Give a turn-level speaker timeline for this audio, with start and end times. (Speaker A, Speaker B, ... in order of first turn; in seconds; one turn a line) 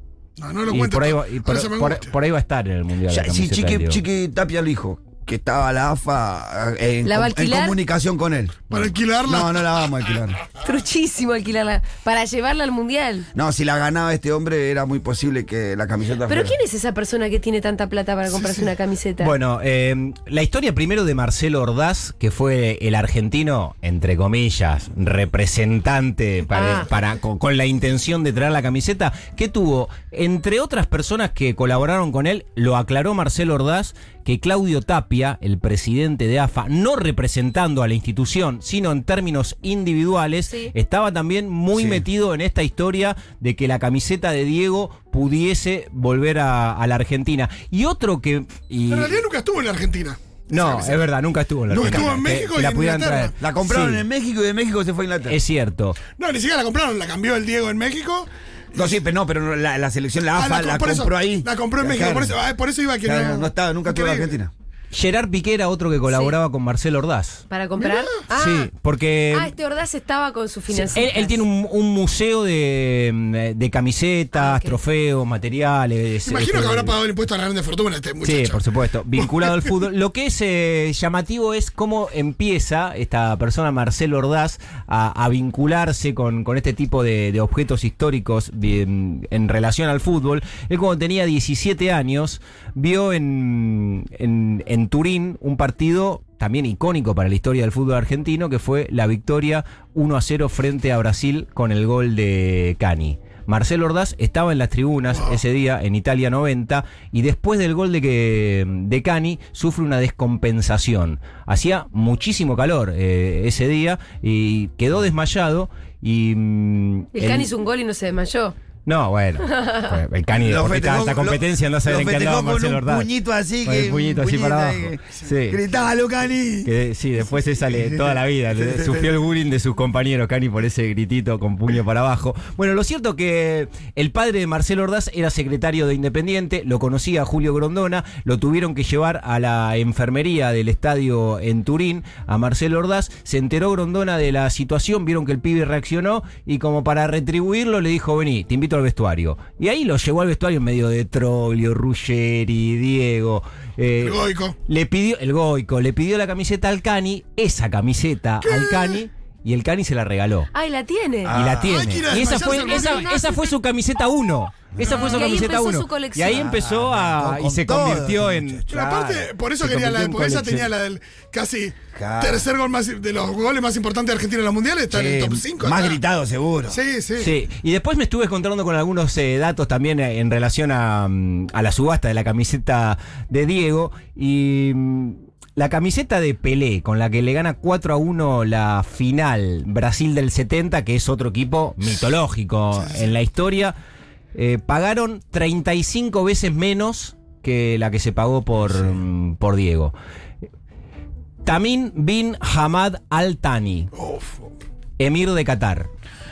Speaker A: 0.4-2.1
Speaker B: 0.7-4.0
Speaker C: 3.1-10.4
Speaker D: 7.0-7.8
Speaker A: 8.7-9.7
Speaker D: 10.6-13.3
Speaker C: 13.3-16.6
Speaker D: 16.3-19.3
Speaker B: 19.2-49.2
Speaker D: 26.5-26.9
Speaker D: 40.5-40.7
Speaker C: 41.7-42.0
Speaker A: 48.9-51.1
Speaker B: 50.5-54.0
Speaker A: 51.7-53.4
Speaker C: 53.4-55.4
Speaker B: 55.3-56.0
Speaker A: 56.2-58.9
Speaker C: 58.8-62.4
Speaker A: 60.3-64.3
Speaker C: 63.0-64.5
Speaker B: 64.9-67.5
Speaker D: 66.0-66.4
Speaker D: 67.5-68.7
Speaker A: 67.8-68.1
Speaker B: 68.3-69.5
Speaker D: 69.3-71.4
Speaker B: 70.7-77.0
Speaker D: 74.3-74.8
Speaker A: 76.2-78.6
Speaker B: 78.2-117.5
Speaker A: 79.2-79.7
Speaker D: 117.1-118.5
Speaker B: 118.9-123.1
Speaker D: 119.4-119.9
Speaker C: 120.4-126.7
Speaker B: 123.7-125.6
Speaker B: 126.7-160.5
Speaker C: 128.5-129.1
Speaker A: 154.0-154.6
Speaker A: 158.4-159.0
Speaker D: 160.5-161.4
Speaker C: 161.2-161.9
Speaker B: 161.3-170.7
Speaker A: 161.6-163.4
Speaker D: 162.2-163.5
Speaker C: 164.8-165.1
Speaker A: 164.8-165.3
Speaker D: 164.9-166.4
Speaker C: 166.2-168.7
Speaker A: 168.7-176.0
Speaker C: 171.9-172.5
Speaker C: 174.9-176.8
Speaker A: 176.7-177.3
Speaker B: 177.2-193.8
Speaker A: 192.7-193.1
Speaker B: 194.3-199.9
Speaker B: 201.4-203.9
Speaker A: 203.9-204.5
Speaker B: 205.0-205.9